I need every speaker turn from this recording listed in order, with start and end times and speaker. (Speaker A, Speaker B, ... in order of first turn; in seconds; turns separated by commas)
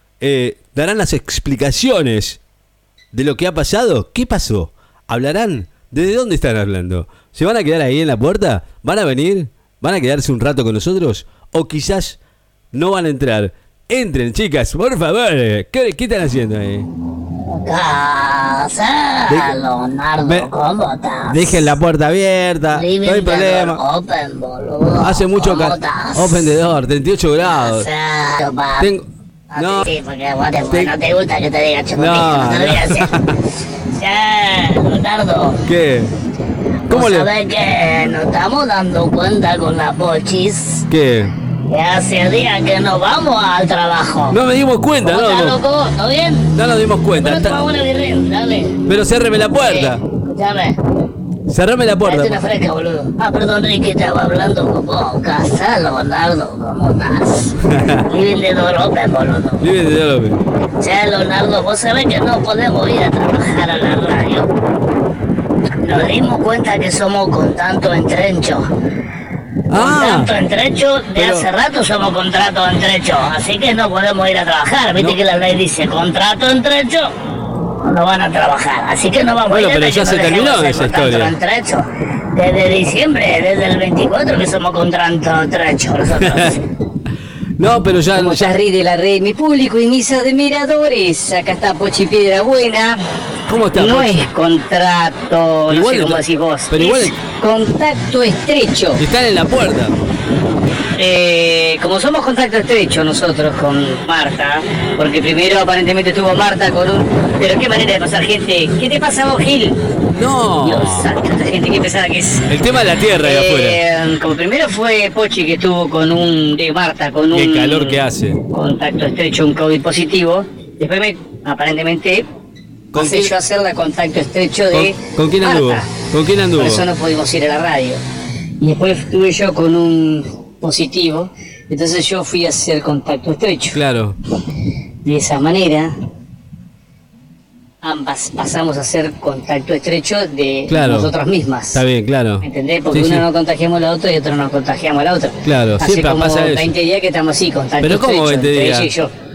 Speaker A: 0.2-2.4, Speaker A: 3.1-12.2, Speaker A: 12.7-16.9, Speaker B: 17.5-21.7, Speaker A: 19.3-19.5, Speaker A: 21.3-23.8, Speaker B: 22.7-26.6, Speaker A: 25.0-27.9, Speaker B: 27.5-28.9, Speaker A: 28.8-29.0, Speaker B: 29.5-33.1, Speaker A: 29.6-29.9, Speaker A: 32.0-33.4, Speaker B: 33.9-35.6, Speaker A: 35.6-36.1, Speaker B: 36.9-40.9, Speaker A: 36.9-37.3, Speaker A: 40.9-41.3, Speaker B: 41.7-44.4, Speaker A: 44.3-45.6, Speaker B: 45.0-46.5, Speaker A: 46.5-47.6, Speaker B: 47.1-48.8, Speaker A: 48.9-50.0, Speaker B: 49.6-50.8, Speaker A: 51.5-52.4, Speaker B: 52.0-59.6, Speaker A: 57.6-58.0, Speaker A: 59.6-60.4, Speaker B: 60.8-64.5, Speaker B: 65.8-68.6, Speaker A: 69.7-70.3, Speaker B: 69.7-77.0, Speaker A: 71.2-71.4, Speaker B: 77.8-81.8, Speaker A: 79.5-81.3, Speaker B: 82.3-86.7, Speaker A: 86.2-86.5, Speaker A: 87.6-88.6, Speaker C: 88.1-93.0, Speaker A: 93.5-94.2, Speaker C: 93.7-99.0, Speaker A: 95.7-97.2, Speaker A: 99.0-100.0, Speaker C: 101.0-109.8, Speaker A: 110.1-111.1, Speaker B: 110.6-111.7, Speaker C: 111.6-112.5, Speaker A: 112.5-113.8, Speaker C: 113.1-118.0, Speaker A: 117.3-118.4, Speaker C: 118.5-122.2, Speaker A: 122.9-123.3, Speaker C: 122.9-125.9, Speaker A: 124.7-126.8, Speaker C: 126.5-128.0, Speaker C: 128.6-133.8, Speaker A: 133.7-134.2, Speaker B: 135.0-135.4, Speaker C: 135.2-135.9, Speaker C: 137.8-141.8, Speaker A: 140.7-141.1, Speaker A: 141.7-143.2, Speaker C: 142.5-149.1, Speaker A: 145.4-146.7, Speaker A: 147.8-148.9